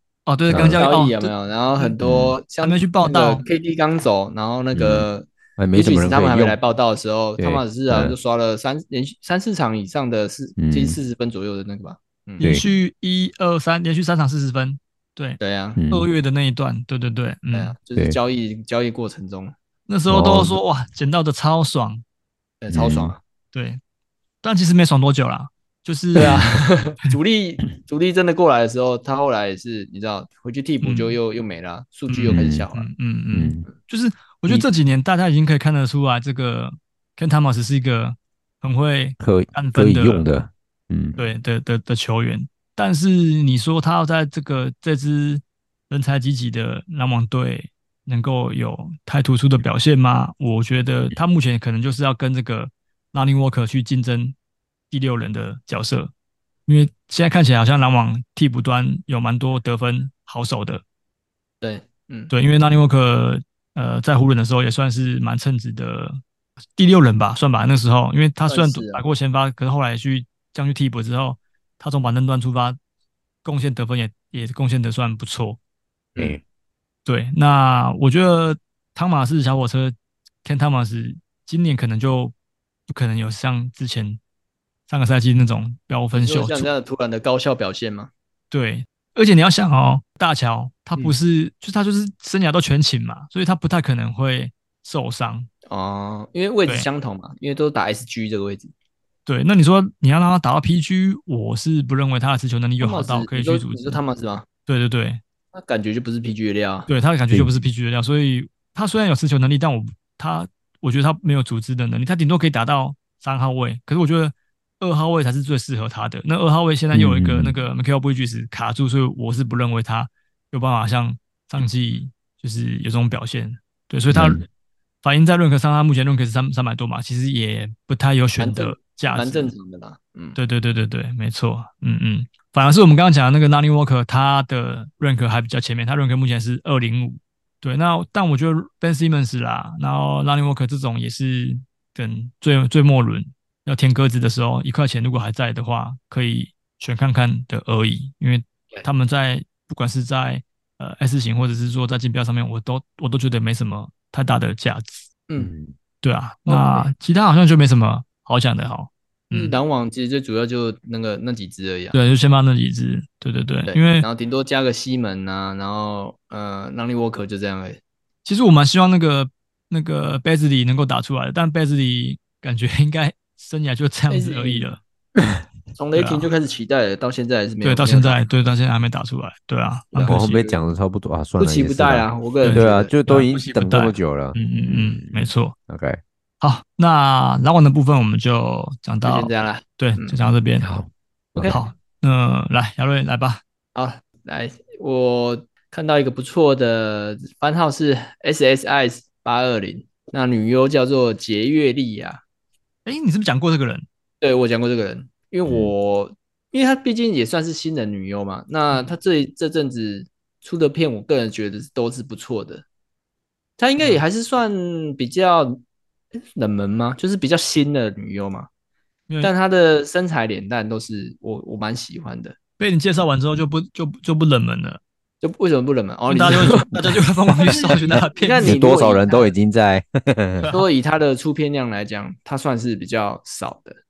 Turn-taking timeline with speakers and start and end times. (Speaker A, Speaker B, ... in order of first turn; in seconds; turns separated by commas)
Speaker A: 0.2-1.9, Speaker B: 0.5-0.8, Speaker C: 0.5-12.5, Speaker B: 2.0-2.4, Speaker A: 2.6-3.4, Speaker B: 4.7-6.6, Speaker B: 7.4-8.1, Speaker B: 10.6-11.0, Speaker A: 12.4-17.7, Speaker C: 15.4-15.8, Speaker B: 15.8-16.1, Speaker C: 17.5-19.5, Speaker A: 19.9-22.0, Speaker B: 20.1-20.6, Speaker C: 22.6-23.2, Speaker B: 22.7-23.1, Speaker A: 23.5-23.8, Speaker A: 24.4-26.6, Speaker C: 26.1-32.9, Speaker A: 30.8-31.2, Speaker A: 32.1-40.2, Speaker B: 32.3-32.7, Speaker B: 33.3-33.6, Speaker B: 39.2-41.2, Speaker A: 41.2-54.3, Speaker A: 54.9-56.1, Speaker A: 56.7-60.8, Speaker C: 61.6-62.3, Speaker A: 62.3-66.2, Speaker A: 66.8-72.8, Speaker C: 68.5-69.0, Speaker A: 73.4-75.6, Speaker C: 76.1-76.4, Speaker A: 77.0-82.3, Speaker A: 82.9-84.2, Speaker A: 84.9-86.7, Speaker C: 86.1-88.1, Speaker A: 88.5-95.5, Speaker C: 95.7-98.7, Speaker A: 99.2-104.0, Speaker C: 102.8-104.5, Speaker A: 104.7-105.2, Speaker C: 105.5-106.9, Speaker A: 106.9-124.4, Speaker B: 107.3-107.7, Speaker B: 116.9-117.5, Speaker B: 124.1-124.4, Speaker A: 125.0-129.5, Speaker C: 128.4-130.4, Speaker A: 130.3-155.1, Speaker B: 155.4-155.7, Speaker A: 156.0-159.6, Speaker C: 156.4-156.9, Speaker C: 159.3-161.9, Speaker A: 161.9-164.1, Speaker C: 163.7-167.8, Speaker A: 168.2-174.8, Speaker C: 174.1-174.7, Speaker C: 175.7-178.2, Speaker A: 175.9-176.3, Speaker A: 177.6-180.3, Speaker C: 179.9-180.6, Speaker B: 180.1-186.0, Speaker C: 181.4-182.9, Speaker A: 182.4-185.5, Speaker A: 186.4-190.7, Speaker C: 189.0-190.2, Speaker B: 190.6-191.6, Speaker A: 191.5-193.4, Speaker C: 193.7-202.2, Speaker A: 202.8-203.8, Speaker C: 204.2-212.6, Speaker B: 205.5-205.7, Speaker C: 213.6-215.6, Speaker C: 216.1-218.5, Speaker C: 219.2-222.4, Speaker A: 222.6-224.8, Speaker C: 225.2-229.3, Speaker A: 226.1-228.6, Speaker B: 228.4-230.5, Speaker C: 230.5-233.8